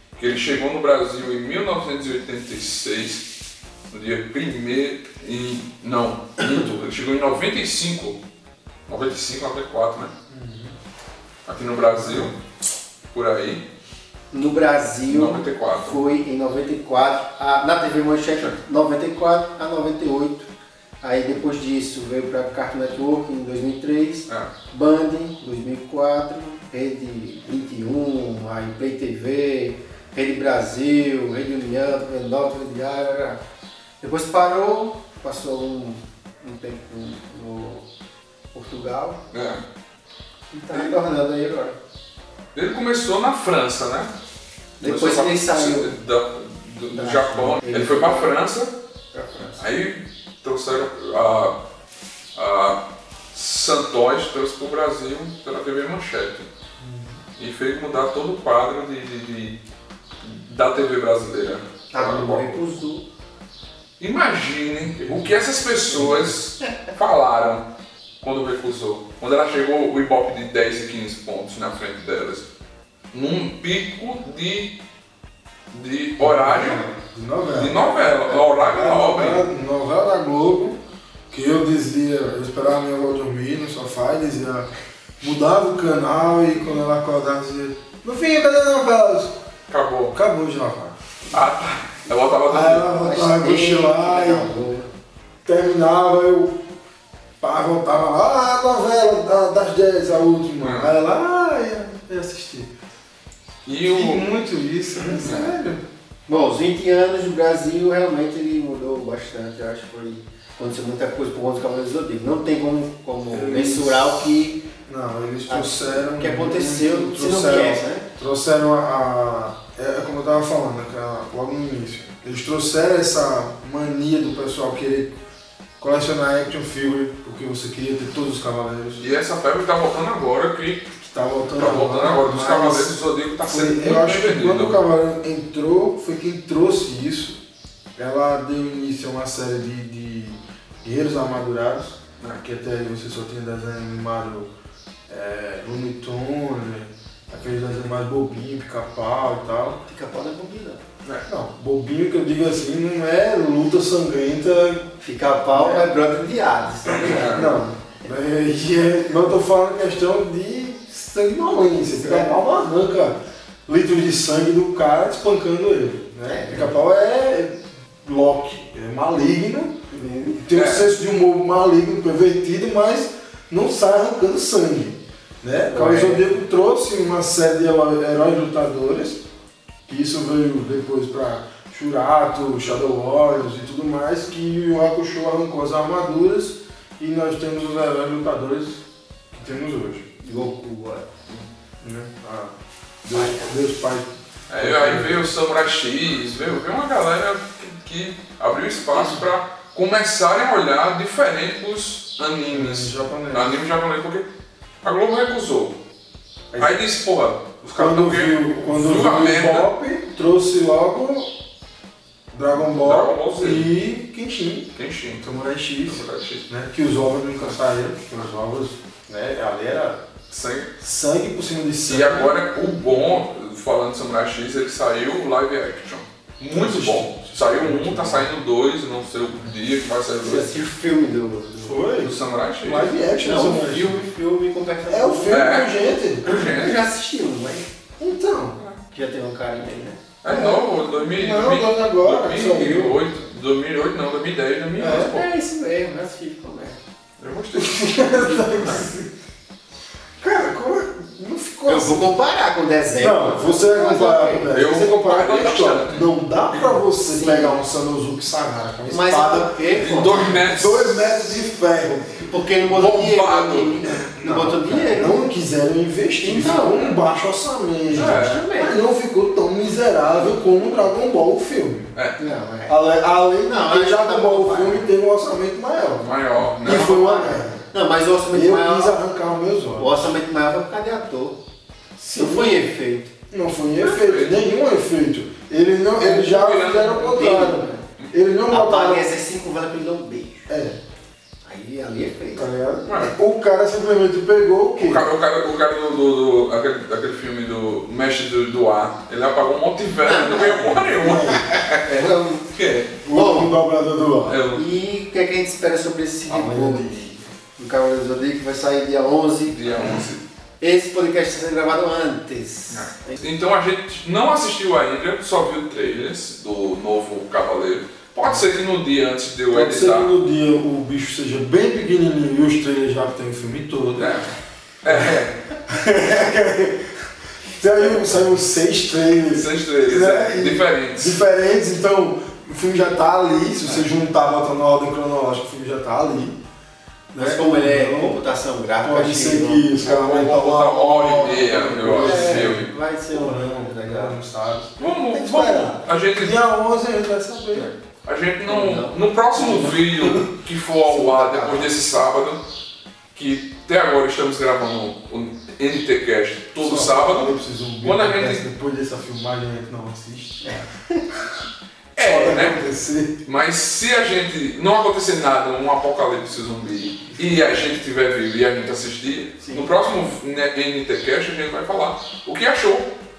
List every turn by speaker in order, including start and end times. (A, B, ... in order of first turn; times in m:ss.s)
0:00.2-0:03.3 A
0:03.9-0:08.2 A
0:08.9-0:10.1 A
0:10.3-0:10.8 B
0:11.5-0:12.3 A
0:12.0-0:12.3 B
0:13.1-0:13.6 A
0:14.3-0:20.5 C
0:15.1-0:16.0 A
0:21.0-0:33.4 C
0:34.0-0:37.8 C
0:38.5-0:39.2 C
0:39.3-0:39.6 A
0:40.5-0:41.8 C
0:42.5-0:44.1 A
0:44.8-0:46.0 C
0:44.8-0:48.7 A
0:46.9-0:48.3 C
0:49.1-0:49.6 C
0:49.6-0:51.6 A
0:52.4-0:52.8 A
0:53.3-0:56.5 A
0:56.8-0:57.2 B
0:57.4-0:59.6 A
1:00.2-1:02.7 A
1:01.9-1:03.0 C
1:04.0-1:07.6 A
1:05.0-1:05.3 B
1:05.9-1:06.4 B
1:08.2-1:12.5 A
1:13.1-1:14.8 A
1:15.7-1:16.9 A
1:16.2-1:20.8 B
1:17.6-1:19.4 A
1:21.3-1:29.4 B
1:29.7-1:30.1 A
1:30.1-1:31.0 B
1:31.3-1:32.9 A
1:32.5-1:34.5 B
1:32.9-1:34.9 C
1:35.4-1:36.6 B
1:37.4-1:42.7 B
1:40.6-1:40.9 A
1:43.6-1:44.3 A
1:43.8-1:45.8 B
1:45.1-1:45.6 A
1:46.3-1:54.6 C
1:53.3-2:05.2 B
1:55.5-1:58.1 C
2:05.8-2:09.1 B
2:09.0-2:10.9 A
2:11.0-2:17.4 B
2:11.6-2:14.8 A
2:18.0-2:24.5 B
2:25.1-2:29.8 B
2:29.9-2:30.8 C
2:31.2-2:34.9 B
2:35.0-2:37.6 C
2:35.5-2:35.9 B
2:37.0-2:37.5 A
2:37.1-2:59.2 B
2:41.9-2:42.4 C
2:46.3-2:46.7 C
2:49.9-2:50.4 C
2:50.5-2:50.9 A
2:55.7-2:56.2 C
2:59.9-3:08.8 B
3:09.3-3:10.1 B
3:10.2-3:11.1 C
3:11.8-3:12.5 B
3:13.0-3:15.2 B
3:13.1-3:13.4 C
3:14.5-3:24.3 A
3:22.5-3:23.6 B
3:24.8-3:25.8 A
3:26.5-3:26.8 B
3:26.6-3:29.7 A
3:27.6-3:31.3 B
3:32.3-3:40.0 B
3:32.8-3:33.7 A
3:34.8-3:35.3 A
3:35.9-3:36.5 A
3:40.3-3:40.7 A
3:40.8-3:42.4 B
3:41.9-3:50.6 A
3:46.5-3:48.3 B
3:50.3-3:51.8 C
3:51.6-3:54.0 B
3:52.0-3:52.9 A
3:53.2-3:55.5 C
3:54.9-3:56.4 B
3:55.3-3:56.8 A
3:56.2-3:57.7 C
3:58.0-3:58.6 B
3:58.6-3:58.8 A
3:58.9-4:00.0 C
4:00.2-4:05.3 A
4:00.3-4:03.0 B
4:04.8-4:05.2 B
4:04.9-4:06.8 C
4:07.2-4:08.9 A
4:07.6-4:09.1 B
4:10.2-4:12.1 B
4:11.7-4:14.5 C
4:12.9-4:19.6 B
4:14.5-4:16.8 A
4:17.1-4:17.6 C
4:18.9-4:20.4 C
4:19.7-4:21.0 A
4:20.2-4:22.3 B
4:22.2-4:25.3 C
4:22.7-4:23.9 A
4:23.9-4:31.9 B
4:26.2-4:27.0 C
4:27.9-4:28.5 A
4:27.9-4:28.8 C
4:32.2-4:32.8 C
4:32.7-4:37.6 B
4:33.4-4:34.8 C
4:36.0-4:37.2 A
4:36.7-4:38.9 C
4:38.3-4:40.1 B
4:39.8-4:41.4 C
4:42.0-4:42.6 B
4:42.2-4:43.1 C
4:43.3-4:49.1 B
4:43.8-4:44.4 A
4:46.0-4:47.2 A
4:47.0-4:47.8 C
4:48.5-4:50.5 C
4:50.5-4:50.8 B
4:51.4-4:52.5 C
4:52.4-4:55.1 B
4:52.9-4:53.2 A
4:54.8-5:02.9 A
5:00.0-5:01.3 C
5:01.0-5:02.1 B
5:01.8-5:02.5 C
5:03.0-5:04.4 B
5:03.1-5:03.5 C
5:04.3-5:04.6 A
5:04.5-5:07.0 C
5:06.3-5:07.2 B
5:07.6-5:10.0 C
5:09.5-5:10.2 A
5:10.6-5:13.2 C
5:12.7-5:20.1 A
5:19.5-5:24.2 B
5:24.0-5:24.3 A
5:24.8-5:25.3 A
5:24.9-5:25.1 B
5:25.7-5:36.4 B
5:29.3-5:31.2 A
5:37.1-5:38.2 B
5:37.2-5:39.7 C
5:38.8-5:47.7 B
5:39.8-5:42.7 A
5:41.9-5:44.2 C
5:44.8-5:46.4 A
5:47.5-5:52.4 A
5:48.4-5:50.0 C
5:50.9-5:51.9 C
5:53.2-5:58.4 A
5:56.6-6:00.7 B
6:02.0-6:02.6 A
6:02.0-6:03.2 B
6:03.2-6:12.9 A
6:09.4-6:09.7 C